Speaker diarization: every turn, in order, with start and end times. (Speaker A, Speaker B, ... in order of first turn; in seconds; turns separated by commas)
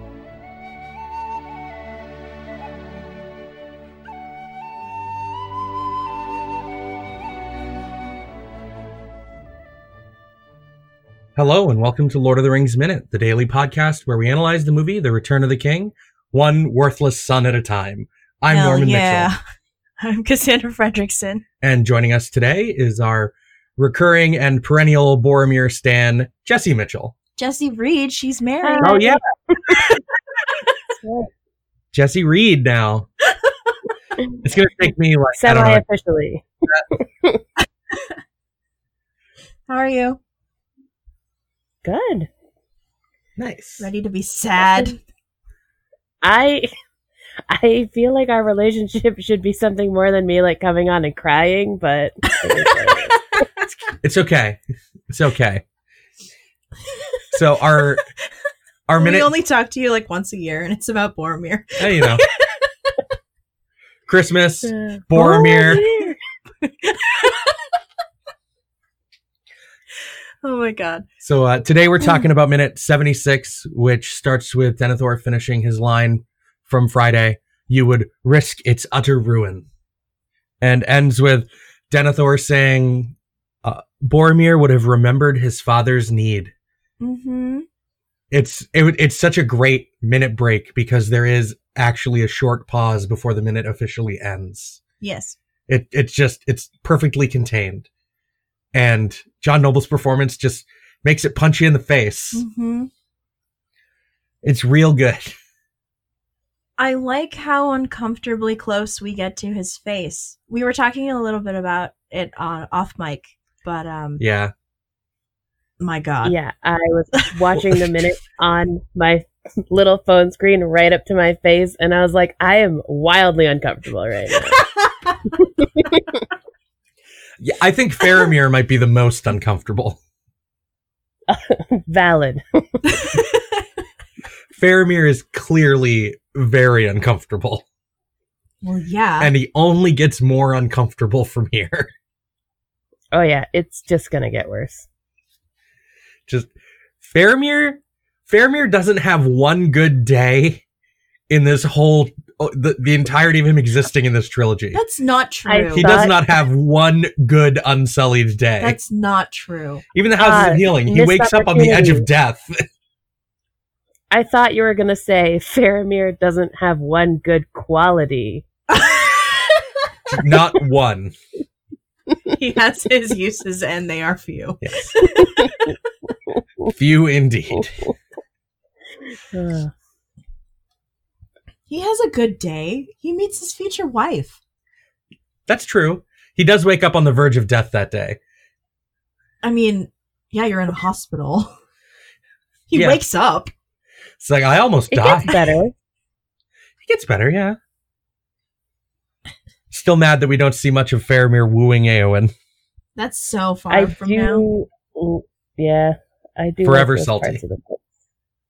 Speaker A: 11.4-19.3, Speaker B: 18.5-19.4, Speaker B: 20.0-21.4, Speaker A: 21.6-27.1, Speaker B: 27.4-28.9, Speaker C: 28.6-29.8, Speaker A: 28.8-29.2, Speaker C: 31.0-31.3, Speaker A: 31.9-33.1, Speaker A: 34.4-35.8, Speaker C: 35.4-37.4, Speaker B: 39.7-40.2, Speaker C: 41.8-42.3, Speaker A: 43.4-43.9, Speaker B: 43.8-45.0, Speaker C: 44.6-45.0, Speaker C: 46.2-46.7, Speaker C: 47.5-53.2, Speaker B: 53.0-53.8, Speaker A: 54.0-55.6, Speaker A: 57.3-58.0, Speaker A: 58.9-59.3, Speaker B: 59.0-62.7, Speaker A: 61.8-62.2, Speaker A: 64.1-65.8, Speaker C: 64.7-66.2, Speaker B: 65.2-65.8, Speaker B: 66.6-67.5, Speaker B: 70.4-71.0, Speaker A: 71.2-79.7, Speaker A: 80.6-86.5, Speaker B: 87.0-87.7, Speaker A: 88.3-94.8, Speaker B: 95.0-95.4, Speaker A: 95.7-97.9, Speaker A: 98.7-102.4, Speaker B: 102.3-102.9, Speaker A: 104.4-105.3, Speaker B: 106.8-114.2, Speaker A: 114.2-114.5, Speaker B: 115.8-116.3, Speaker C: 116.2-124.6, Speaker A: 127.4-130.0, Speaker C: 131.3-132.4, Speaker B: 133.0-133.5, Speaker A: 134.5-137.6, Speaker B: 138.6-139.3, Speaker A: 139.2-141.9, Speaker C: 143.1-144.9, Speaker A: 146.3-150.6, Speaker A: 151.3-154.8, Speaker B: 154.7-155.9, Speaker C: 155.5-156.2, Speaker A: 155.8-158.8, Speaker B: 158.6-159.8, Speaker A: 159.9-162.6, Speaker C: 160.2-162.1, Speaker C: 164.1-168.4, Speaker B: 168.7-169.6, Speaker A: 170.1-171.1, Speaker B: 172.3-175.7, Speaker A: 176.7-177.7, Speaker C: 179.3-179.7, Speaker B: 181.7-184.4, Speaker A: 185.5-188.2, Speaker B: 189.4-191.5, Speaker B: 192.7-193.5, Speaker A: 192.7-193.0, Speaker A: 194.2-195.4, Speaker C: 194.9-195.7, Speaker A: 196.8-197.6, Speaker A: 199.7-202.3, Speaker B: 203.0-204.5, Speaker C: 203.7-207.8, Speaker A: 206.6-207.4